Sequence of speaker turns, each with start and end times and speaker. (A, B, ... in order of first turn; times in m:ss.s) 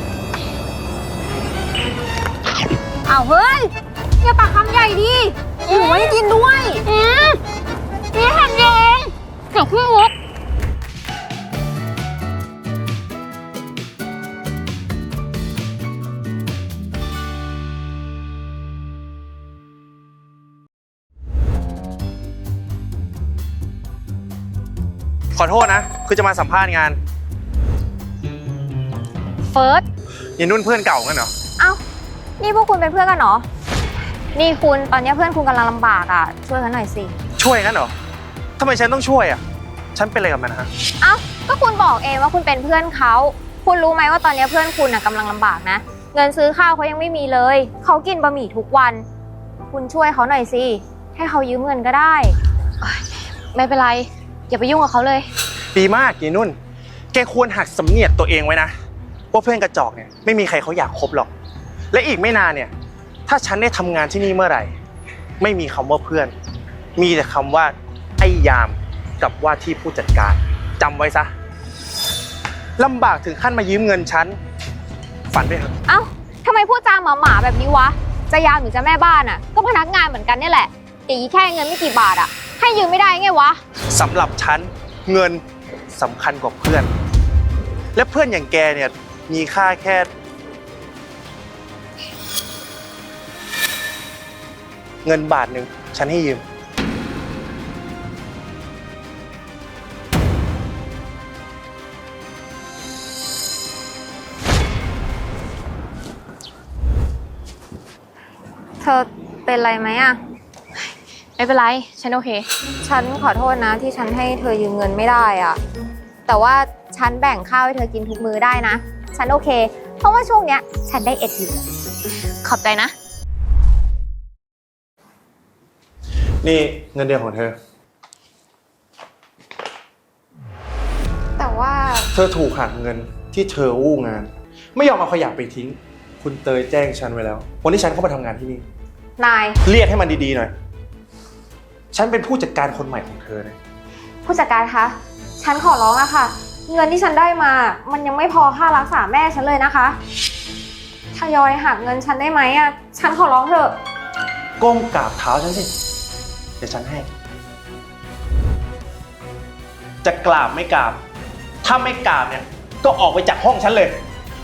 0:03.1-0:06.8 A
0:05.7-0:06.1 B
0:06.9-0:07.4 B
0:08.1-0:10.1 A
0:25.4-0:27.0 C
0:29.5-0:29.8 B
0:30.4-0:31.3 C
0:32.4-0:33.5 A
0:34.4-0:37.1 A
0:37.4-0:37.9 C
0:38.6-0:39.4 C
0:40.0-0:40.7 C
0:41.0-0:49.1 A
0:49.7-0:52.4 A
0:52.8-0:55.3 B
0:55.7-0:56.6 C
0:57.1-0:58.7 C
0:59.3-1:01.3 C
1:01.9-1:02.7 C
1:03.3-1:04.7 C
1:05.4-1:06.3 C
1:07.0-1:11.3 C
1:12.8-1:14.4 C
1:15.3-1:15.7 C
1:15.9-1:23.6 A
1:23.9-1:26.9 C
1:28.0-1:30.1 C
1:35.0-1:36.4 C
1:48.8-1:50.2 A
1:51.4-1:52.5 B
1:52.8-1:55.6 A
1:56.3-2:01.7 A
2:02.4-2:02.9 B
2:06.4-2:07.6 C
2:11.4-2:12.1 A
2:12.1-2:18.6 C
2:19.2-2:19.6 A
2:19.6-2:20.5 C
2:21.9-2:23.6 C
2:24.2-2:30.0 A
2:31.1-2:33.8 A
2:34.6-2:35.7 C
2:36.6-2:37.1 C
2:40.0-2:41.0 C
2:41.6-2:44.0 C